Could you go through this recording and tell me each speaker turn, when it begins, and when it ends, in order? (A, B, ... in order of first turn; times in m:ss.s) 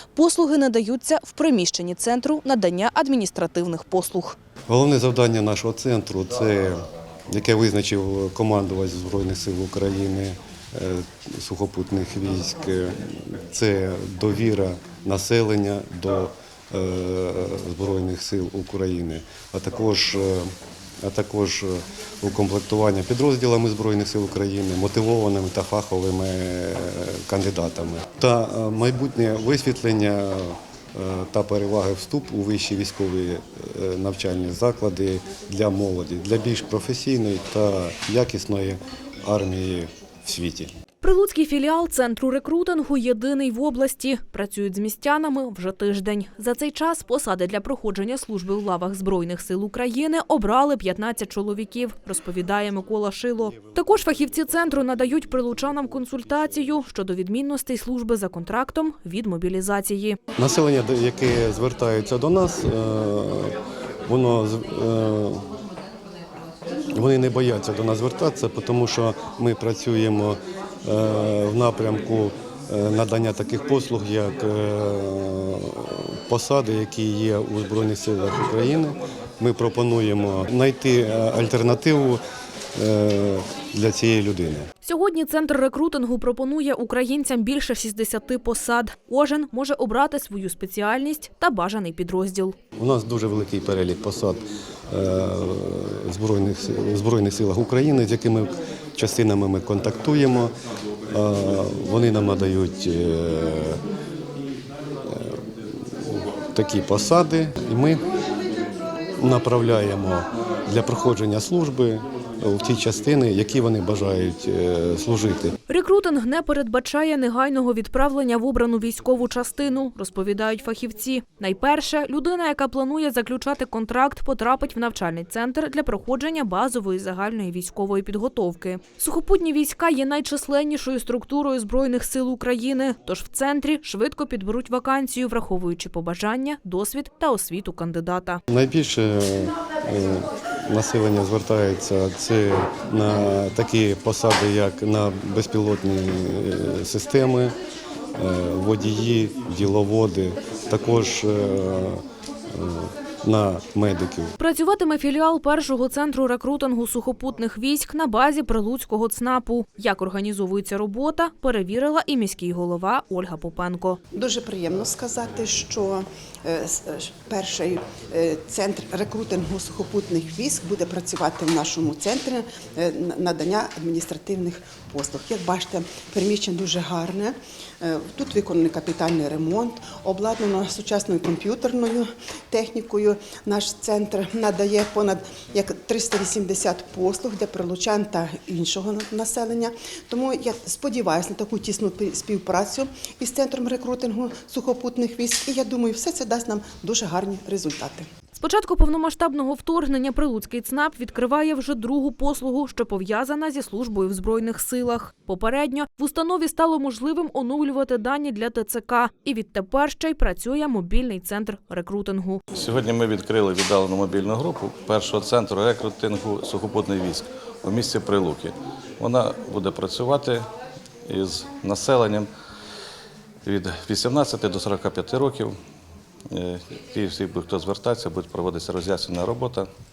0:00.2-0:04.4 A
0:04.7-0:40.7 B
0:41.0-1:00.2 A
1:00.4-1:05.4 B
1:06.9-1:22.2 B
1:22.8-1:24.7 B
1:24.8-1:32.6 A
1:32.8-1:40.5 B
1:41.1-1:43.8 B
1:45.1-1:48.0 B
1:49.2-1:55.6 B
1:55.7-2:18.4 A
2:18.5-2:27.6 B
2:28.2-2:34.3 B
2:34.4-2:44.0 A
2:44.1-3:18.1 C
3:18.4-3:32.4 A
3:32.5-3:40.5 D
3:41.1-3:42.3 D
3:43.4-3:45.6 D
3:46.3-3:49.7 D